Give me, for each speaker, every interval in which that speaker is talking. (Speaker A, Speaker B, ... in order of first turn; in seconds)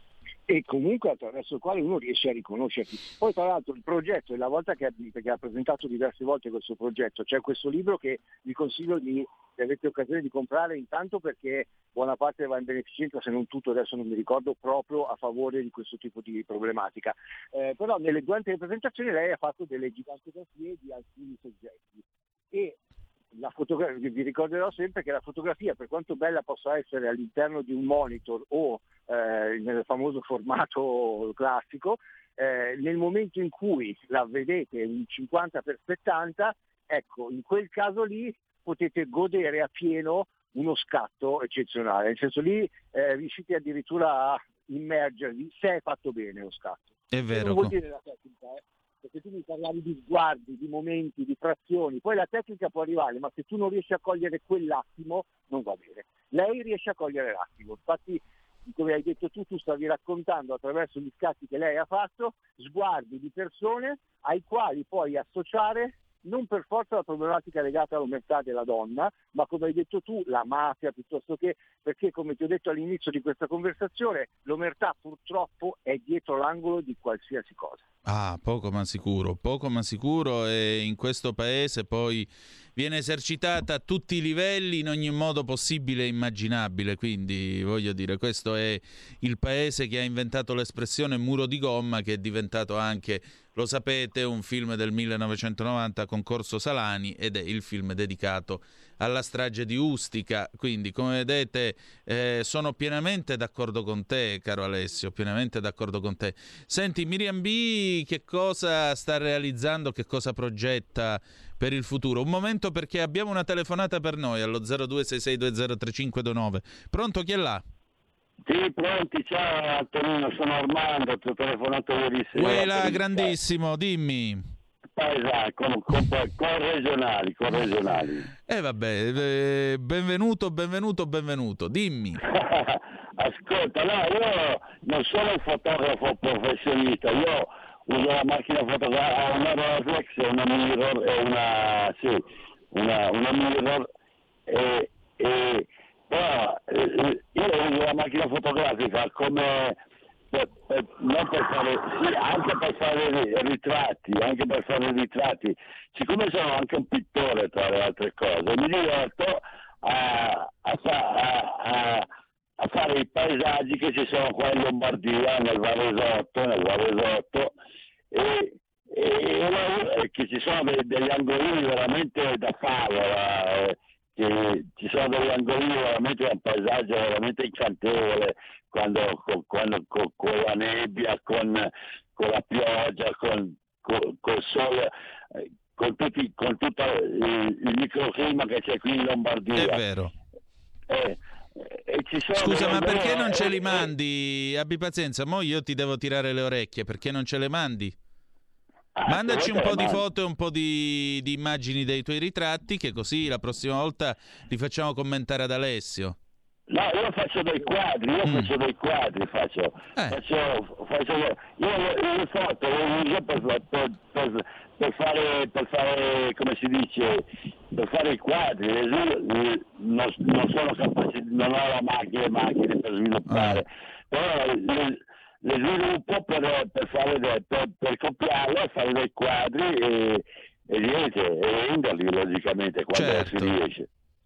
Speaker A: 0.5-22.8, 23.3-77.8
Speaker B: 47.1-47.8, 78.0-117.6, 122.3-124.4, 128.5-132.2, 189.6-190.1, 192.3-197.9, 199.1-206.2, 208.2-208.5, 223.3-223.6, 232.9-233.5
Speaker C: 118.5-123.3, 125.0-128.3, 132.3-143.9, 144.5-149.8, 150.3-162.1, 162.6-167.5, 168.1-189.8, 190.9-193.9, 198.9-200.0, 206.7-233.8